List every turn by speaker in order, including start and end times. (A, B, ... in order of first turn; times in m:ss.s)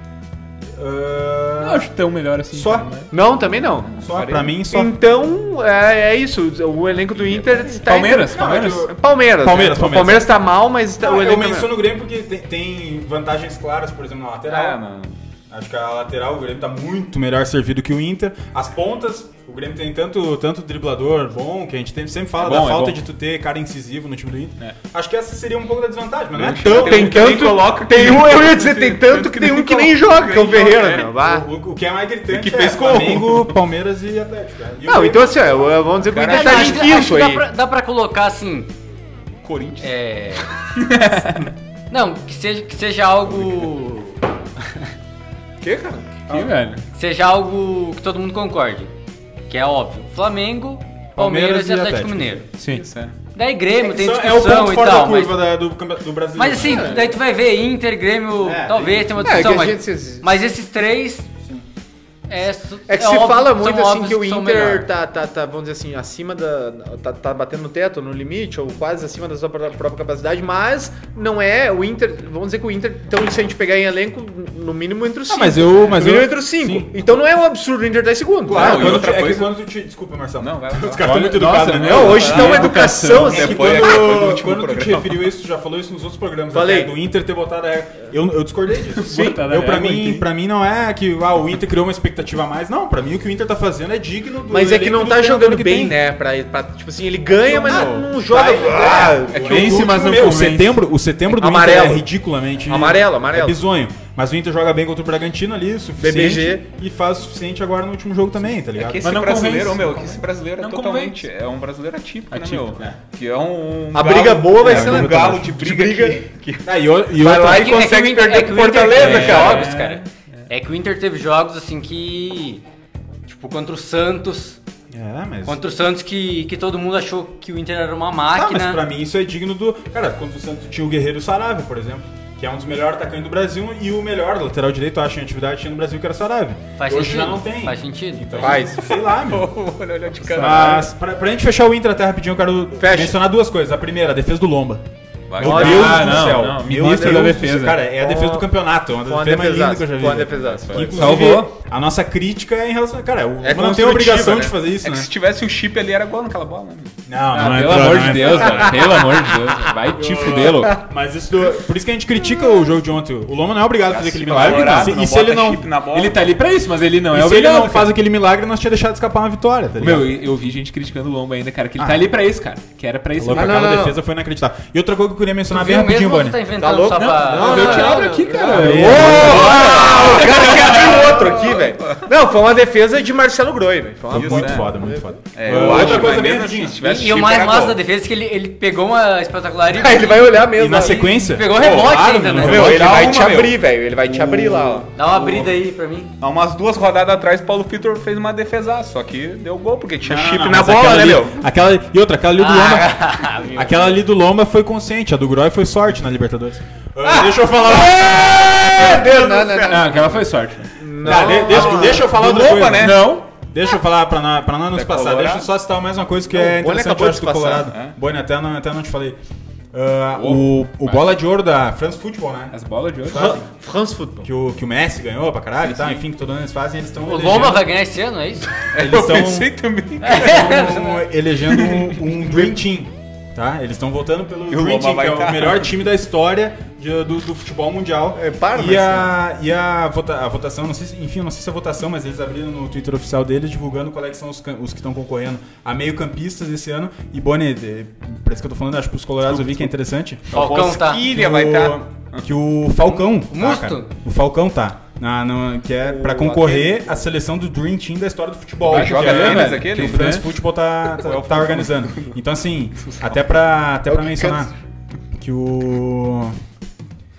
0:00.8-0:01.9 A
0:01.6-0:03.1 B
0:02.5-0:02.9 A
0:03.1-0:03.9 C
0:03.9-0:04.6 D
0:04.0-0:04.9 A
0:04.7-0:11.7 C
0:07.1-0:07.8 D
0:07.8-0:08.9 B
0:08.2-0:10.4 A
0:11.0-0:14.8 A
0:14.5-0:15.2 D
0:15.5-0:27.5 A
0:22.4-0:23.0 D
0:26.4-0:31.1 D
0:26.4-0:31.4 C
0:31.1-0:35.9 A
0:32.3-0:33.6 D
0:34.8-0:37.4 C
0:36.0-0:37.0 D
0:36.2-0:38.7 E
0:39.4-0:39.9 D
0:39.8-0:40.5 E
0:41.2-0:41.5 B
0:41.9-0:44.2 E
0:45.6-0:46.2 D
0:46.3-0:46.8 B
0:46.9-0:48.9 E
0:49.5-0:52.5 E
0:51.2-0:52.4 A
0:52.6-0:52.9 B
0:52.7-0:53.2 D
0:53.3-0:55.4 E
0:53.8-0:57.0 A
0:56.4-1:01.3 E
0:56.6-0:57.1 C
0:58.4-0:59.6 A
0:59.2-1:00.3 C
1:02.3-1:04.9 E
1:02.9-1:19.1 C
1:15.3-1:17.0 A
1:18.4-1:36.0 A
1:18.5-1:19.6 D
1:20.4-1:25.3 D
1:21.0-1:23.4 B
1:21.7-1:24.0 C
1:26.5-1:26.9 C
1:29.0-1:30.2 B
1:29.1-1:29.4 C
1:34.5-1:40.4 C
1:37.4-1:49.1 A
1:38.9-1:39.5 D
1:39.4-1:40.8 B
1:41.3-1:42.0 C
1:42.7-1:43.6 C
1:46.0-1:46.6 C
1:48.8-1:56.7 D
1:49.0-1:51.2 B
1:52.3-1:52.9 B
1:53.9-1:56.2 C
1:54.6-1:55.5 A
1:56.6-1:58.4 A
1:57.2-1:59.7 C
1:57.3-2:02.6 E
1:58.9-1:59.3 A
1:59.0-1:59.4 D
1:59.0-2:00.0 B
2:03.3-2:04.6 E
2:04.9-2:05.6 A
2:05.4-2:08.8 E
2:08.3-2:19.5 A
2:16.8-2:18.6 E
2:18.4-2:18.9 C
2:18.8-2:20.9 D
2:20.4-2:20.8 B
2:20.4-2:24.8 A
2:22.8-2:23.2 C
2:25.3-2:27.0 D
2:25.4-2:35.1 A
2:25.4-2:26.4 C
2:25.4-2:27.9 B
2:28.0-2:28.5 C
2:29.0-2:31.3 C
2:30.3-2:31.3 D
2:31.0-2:31.5 B
2:33.4-2:34.5 C
2:34.8-2:36.9 D
2:37.1-2:38.7 A
2:37.3-2:40.8 B
2:37.8-2:38.7 D
2:38.2-2:39.1 C
2:40.1-2:40.8 C
2:40.3-2:45.7 A
2:43.9-2:45.0 C
2:44.0-2:46.2 D
2:44.5-2:44.9 B
2:45.9-2:47.9 B
2:47.1-2:50.1 A
2:49.8-2:53.7 B
2:51.8-2:52.1 A
2:53.2-2:56.4 A
2:53.4-2:54.0 C
2:55.5-3:00.2 E
2:56.6-3:06.1 C
2:57.0-3:00.9 B
2:57.4-2:57.8 A
2:58.4-3:00.0 A
3:01.5-3:02.0 D
3:04.1-3:06.8 A
3:04.1-3:04.7 D
3:05.3-3:07.8 D
3:06.8-3:12.8 E
3:09.7-3:11.1 C
3:10.5-3:13.2 A
3:11.6-3:15.5 D
3:12.4-3:14.9 C
3:15.0-3:16.1 E
3:16.2-3:21.4 D
3:20.0-3:29.3 A
3:22.4-3:24.0 E
3:27.1-3:30.2 C
3:28.9-3:30.1 D
3:29.6-3:30.7 B
3:30.8-3:32.3 C
3:31.0-3:39.2 A
3:31.1-3:33.1 D
3:32.8-3:33.2 B
3:34.7-3:35.5 D
3:36.3-3:37.7 C
3:37.7-3:38.0 D
3:39.7-3:43.4 A
3:42.5-3:43.4 B
3:43.1-3:44.3 C
3:44.2-3:47.7 A
3:45.6-3:46.0 D
3:47.0-3:48.5 E
3:48.7-3:50.6 D
3:48.7-4:24.5 A
3:50.0-3:51.0 E
3:51.5-3:52.0 D
3:54.5-3:55.7 D
3:58.2-3:59.1 C
4:09.3-4:09.6 D
4:10.3-4:12.3 D
4:10.3-4:11.0 E
4:13.1-4:13.9 E
4:15.8-4:17.1 C
4:18.7-4:20.2 D
4:18.7-4:20.2 B
4:21.0-4:22.2 D
4:22.8-4:23.1 D
4:23.9-4:24.5 C
4:25.2-4:26.4 A